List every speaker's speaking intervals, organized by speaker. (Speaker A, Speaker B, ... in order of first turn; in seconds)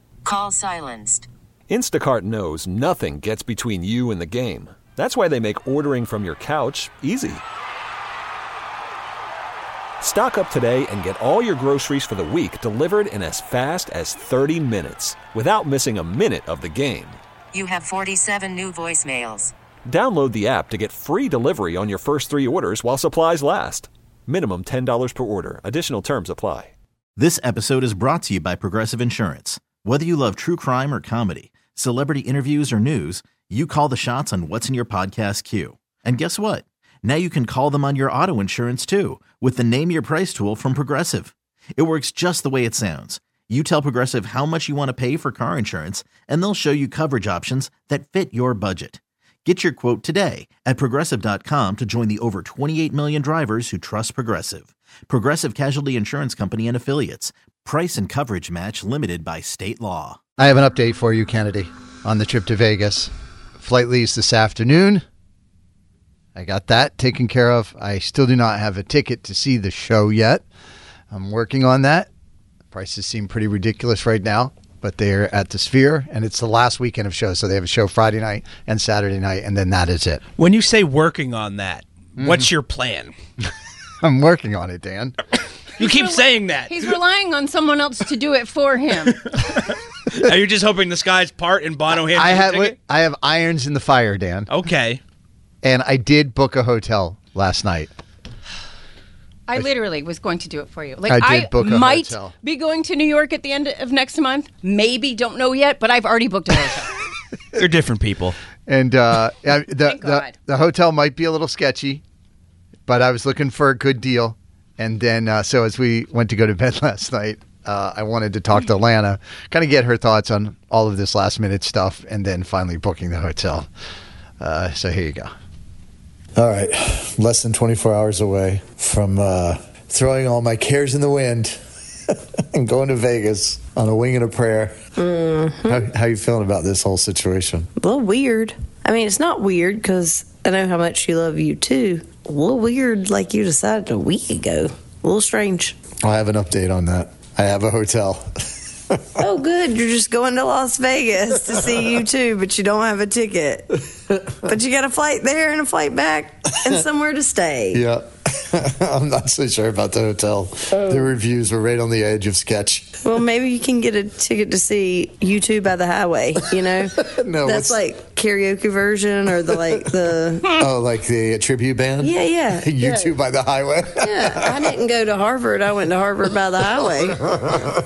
Speaker A: 0.2-1.3, 17.5-19.5
Speaker B: 1.7-7.4, 10.0-17.2, 19.9-26.7
Speaker C: 27.2-60.2
Speaker D: 60.4-65.0, 66.4-70.4, 71.1-72.1, 72.7-80.2, 82.2-82.5, 84.0-85.1, 92.1-94.5, 95.6-97.9, 101.1-102.3, 108.7-112.0, 112.9-123.7, 124.4-125.3
Speaker E: 80.4-83.1, 85.8-87.0, 89.1-92.8, 94.5-95.0, 107.5-108.4
Speaker F: 85.8-89.2, 99.5-106.9, 109.8-110.3, 144.9-145.6, 163.1-163.4, 166.0-166.5, 169.8-170.2, 174.1-175.1, 176.3-176.9
Speaker G: 126.4-131.6, 132.5-134.8, 135.7-137.7, 146.0-148.3, 157.7-163.0, 167.0-167.8, 170.5-174.6, 177.3-177.7
Speaker H: 135.0-135.8, 137.8-145.7, 149.2-153.7, 154.5-157.6, 163.3-166.9, 167.6-170.4, 172.1-173.1, 174.7-177.1